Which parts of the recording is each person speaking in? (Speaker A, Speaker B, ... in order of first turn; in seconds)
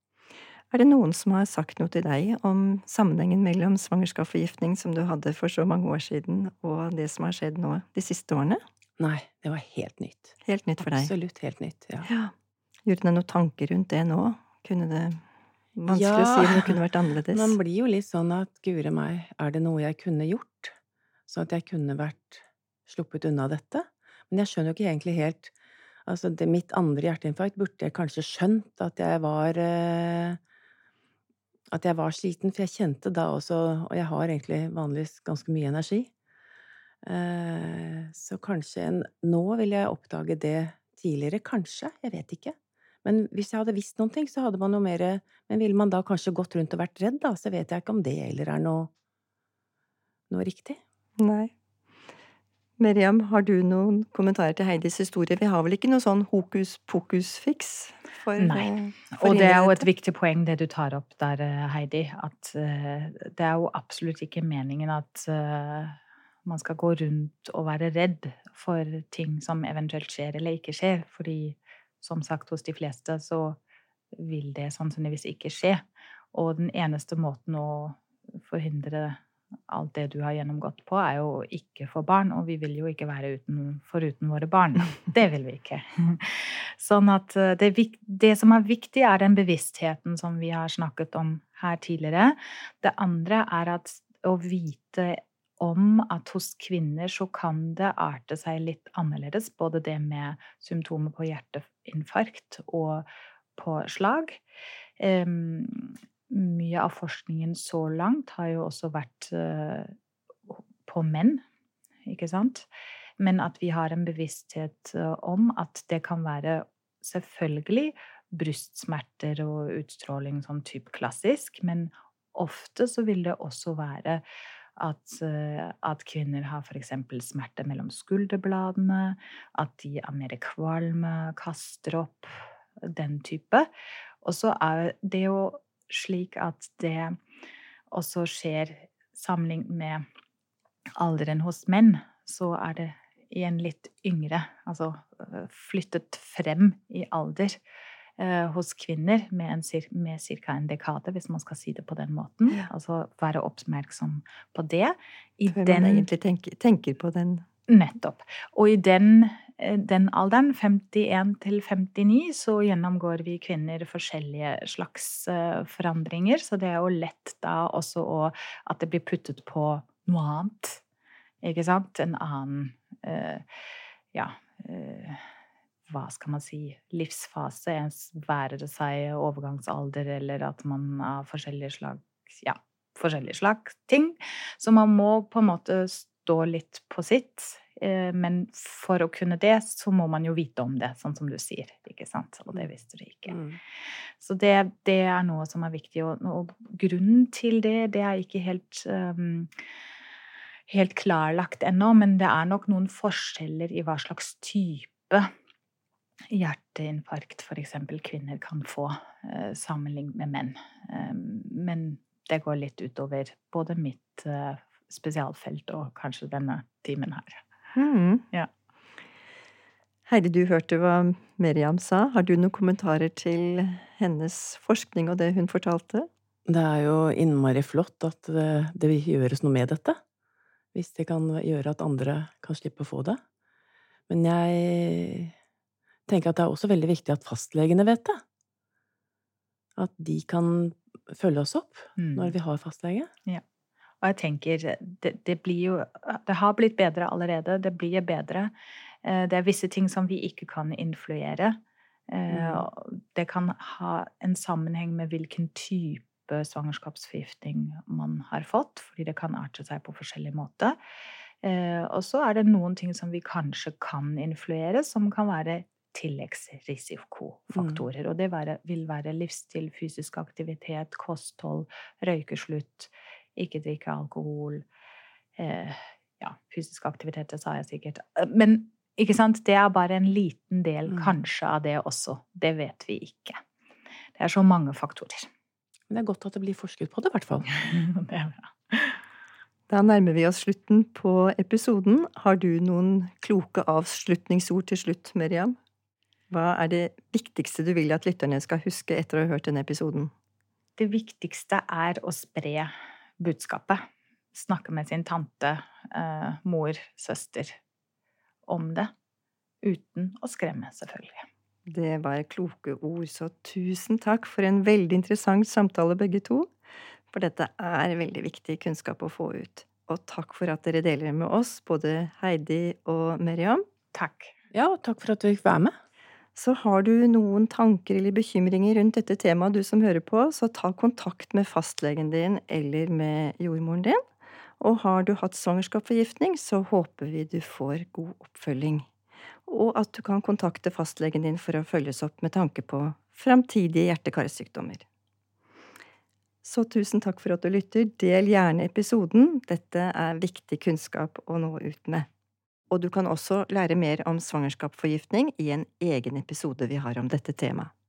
Speaker A: 0.7-8.6, 10.4-11.1, 12.1-12.3, 12.9-15.2, 15.8-17.6, 51.2-51.5, 52.8-59.9, 155.5-157.5, 217.8-218.2, 220.1-226.1, 289.7-295.6, 296.3-300.1, 311.7-316.5, 317.1-323.6, 326.4-334.0, 334.6-338.9, 339.5-344.8, 346.4-352.1, 352.7-357.7
Speaker B: 9.0-12.1, 15.9-16.8, 17.3-20.7, 21.3-25.5, 26.1-30.4, 31.7-36.1, 37.0-48.9, 50.3-50.8, 193.3-193.6, 226.5-230.0, 230.7-233.2, 234.1-235.3, 236.1-238.2, 239.8-243.1, 252.3-252.7, 267.5-267.8, 280.9-281.1, 285.9-287.5, 324.5-325.7
Speaker C: 58.4-73.6, 74.2-104.4, 105.0-109.9, 110.5-111.4, 112.1-112.7, 113.2-124.2, 124.8-133.7, 134.2-137.2, 137.9-140.1, 141.0-147.6, 148.2-156.1, 157.7-170.8, 171.4-173.4, 174.1-175.2, 175.9-193.4, 194.2-199.5, 200.7-205.3, 206.3-217.4, 242.0-242.3, 244.0-248.5, 249.0-251.6, 252.1-260.8, 261.4-274.6, 275.4-283.4, 284.2-285.3, 287.5-289.0, 300.8-307.6, 308.5-308.9, 309.6-311.3, 323.9-324.3